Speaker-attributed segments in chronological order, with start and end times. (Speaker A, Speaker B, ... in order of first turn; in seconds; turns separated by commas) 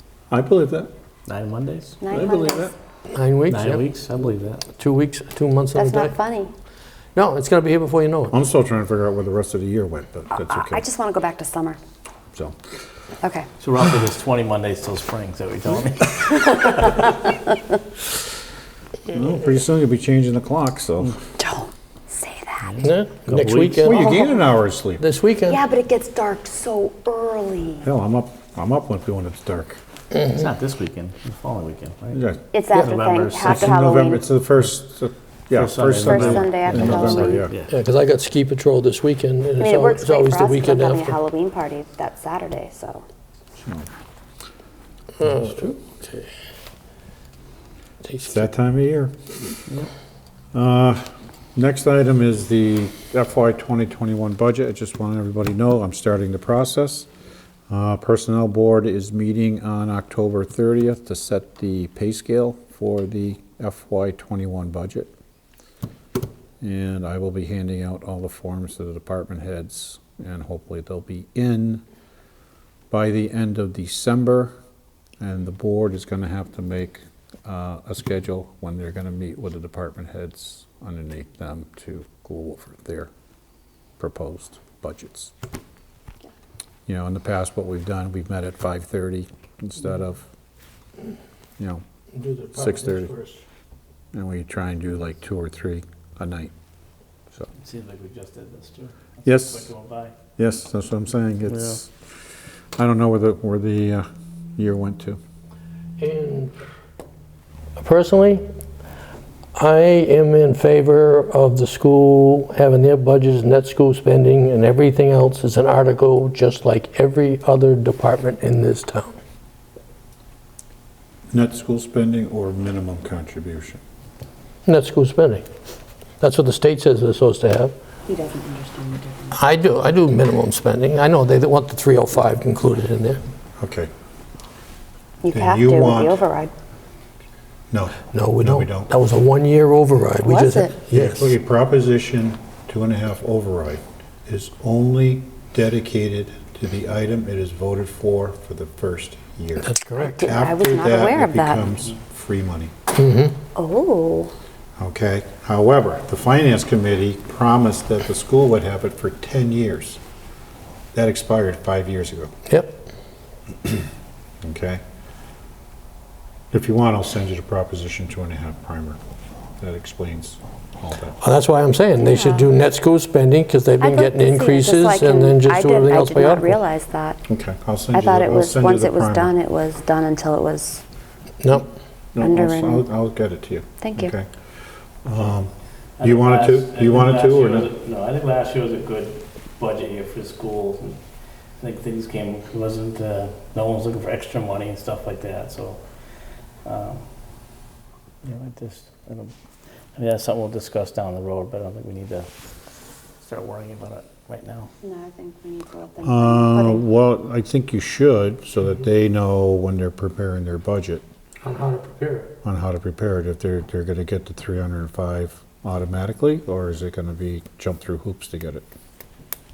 Speaker A: 0.3-0.9, Speaker B: 1.3-2.0, Speaker C: 2.0-2.7, Speaker A: 2.1-2.7, Speaker D: 3.1-3.8, Speaker B: 3.5-4.7, Speaker D: 4.7-6.1, Speaker C: 5.7-6.5, Speaker D: 7.1-8.3, Speaker A: 8.3-10.8, Speaker C: 10.3-11.8, Speaker B: 13.6-17.3, Speaker A: 19.1-21.2, Speaker C: 21.4-22.7, Speaker B: 22.6-24.0, Speaker D: 22.8-24.1, Speaker A: 23.8-25.0, Speaker C: 24.1-24.4, Speaker D: 25.0-25.6, Speaker C: 25.5-27.9, Speaker A: 27.8-29.8, Speaker B: 30.3-32.2, Speaker A: 32.1-32.4, Speaker C: 32.5-34.2, Speaker B: 32.7-33.7, Speaker A: 33.4-37.5, Speaker B: 35.5-37.7, Speaker C: 36.0-37.4, Speaker D: 37.7-41.1, Speaker C: 39.6-43.0, Speaker A: 43.6-43.9, Speaker D: 45.2-45.5, Speaker B: 45.2-45.8, Speaker D: 48.0-48.3, Speaker A: 48.3-49.5, Speaker A: 50.5-57.1, Speaker A: 57.7-65.1, Speaker A: 66.6-71.8, Speaker A: 72.9-74.5, Speaker A: 75.2-83.1, Speaker A: 84.0-85.3, Speaker A: 86.9-90.3, Speaker A: 91.6-91.8, Speaker D: 92.1-93.4, Speaker A: 92.5-93.1, Speaker A: 94.1-96.5, Speaker B: 97.5-100.1, Speaker A: 99.2-99.7, Speaker A: 100.4-105.2, Speaker B: 101.5-101.8, Speaker D: 106.0-106.6, Speaker D: 107.8-108.4, Speaker D: 109.5-119.1, Speaker A: 121.3-123.8, Speaker D: 124.7-125.4, Speaker D: 126.2-127.7, Speaker C: 128.1-129.4, Speaker D: 129.3-133.2, Speaker A: 133.6-133.9, Speaker C: 135.2-136.5, Speaker A: 135.3-136.2, Speaker A: 137.7-138.9, Speaker D: 138.0-141.3, Speaker C: 140.2-140.7, Speaker A: 140.9-152.7, Speaker D: 149.6-150.2, Speaker C: 150.0-151.6, Speaker D: 152.9-153.3, Speaker C: 153.5-154.3, Speaker A: 154.8-160.0, Speaker A: 160.9-162.3, Speaker D: 162.5-162.8, Speaker A: 164.4-164.8, Speaker A: 166.5-169.0, Speaker A: 169.6-171.2, Speaker D: 171.2-176.6, Speaker C: 172.0-172.5, Speaker C: 173.8-177.2, Speaker A: 177.3-179.3, Speaker C: 177.9-180.8, Speaker A: 182.1-184.3, Speaker C: 182.2-182.8, Speaker C: 183.8-184.1, Speaker A: 185.0-187.7, Speaker B: 186.0-191.0, Speaker B: 191.6-195.8, Speaker B: 196.6-197.0, Speaker B: 198.2-199.3, Speaker B: 199.9-202.3, Speaker B: 203.2-204.7, Speaker C: 204.8-206.8, Speaker A: 206.0-211.0, Speaker D: 211.4-212.3, Speaker A: 212.4-218.7